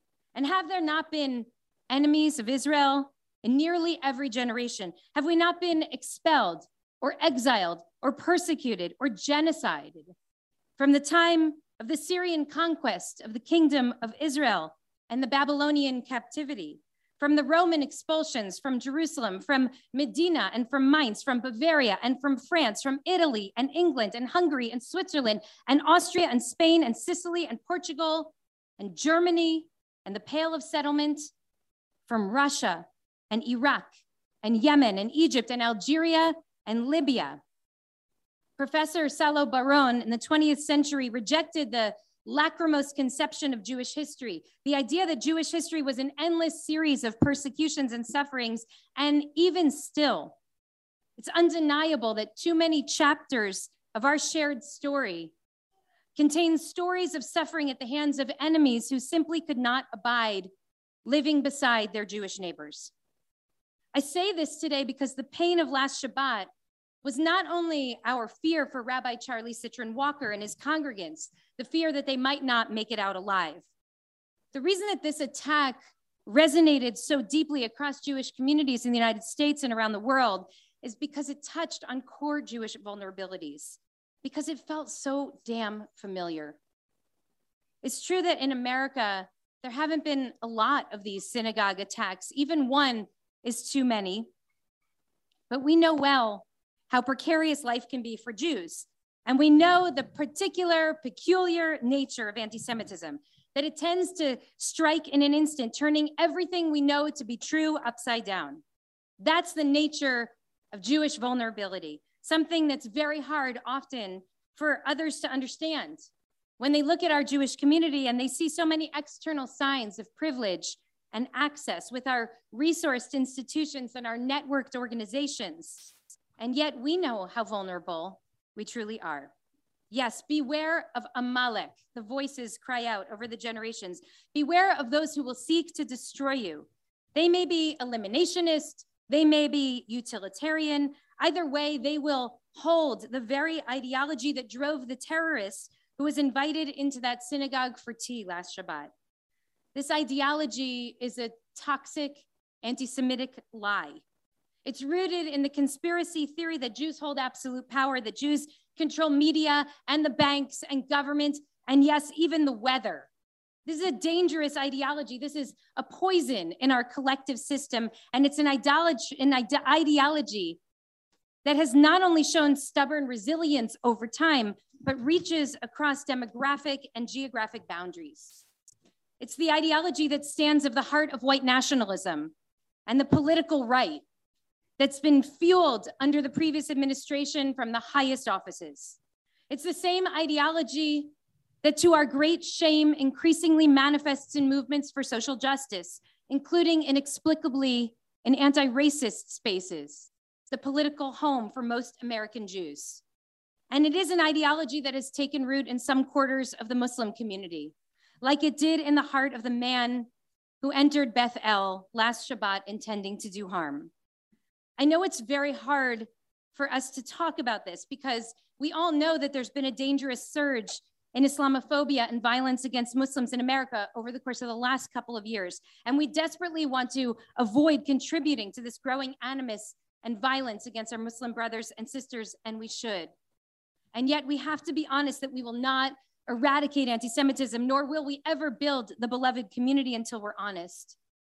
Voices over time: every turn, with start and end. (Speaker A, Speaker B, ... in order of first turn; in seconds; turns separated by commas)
Speaker A: 0.3-10.1, Speaker A: 10.8-31.2, Speaker A: 32.1-37.4, Speaker A: 38.6-50.4, Speaker A: 51.2-55.3, Speaker A: 56.2-60.5, Speaker A: 61.0-62.9, Speaker A: 63.9-66.5, Speaker A: 67.0-73.7, Speaker A: 74.5-86.6, Speaker A: 87.8-94.3, Speaker A: 95.5-108.6, Speaker A: 109.2-116.1, Speaker A: 116.6-129.3, Speaker A: 129.9-148.9, Speaker A: 149.8-154.0, Speaker A: 154.6-163.1, Speaker A: 163.7-170.6, Speaker A: 171.4-178.4, Speaker A: 179.2-182.3, Speaker A: 182.9-184.0, Speaker A: 184.8-189.0, Speaker A: 189.5-191.1, Speaker A: 191.6-203.0, Speaker A: 203.7-210.1, Speaker A: 210.6-213.9, Speaker A: 214.8-233.1, Speaker A: 233.9-241.0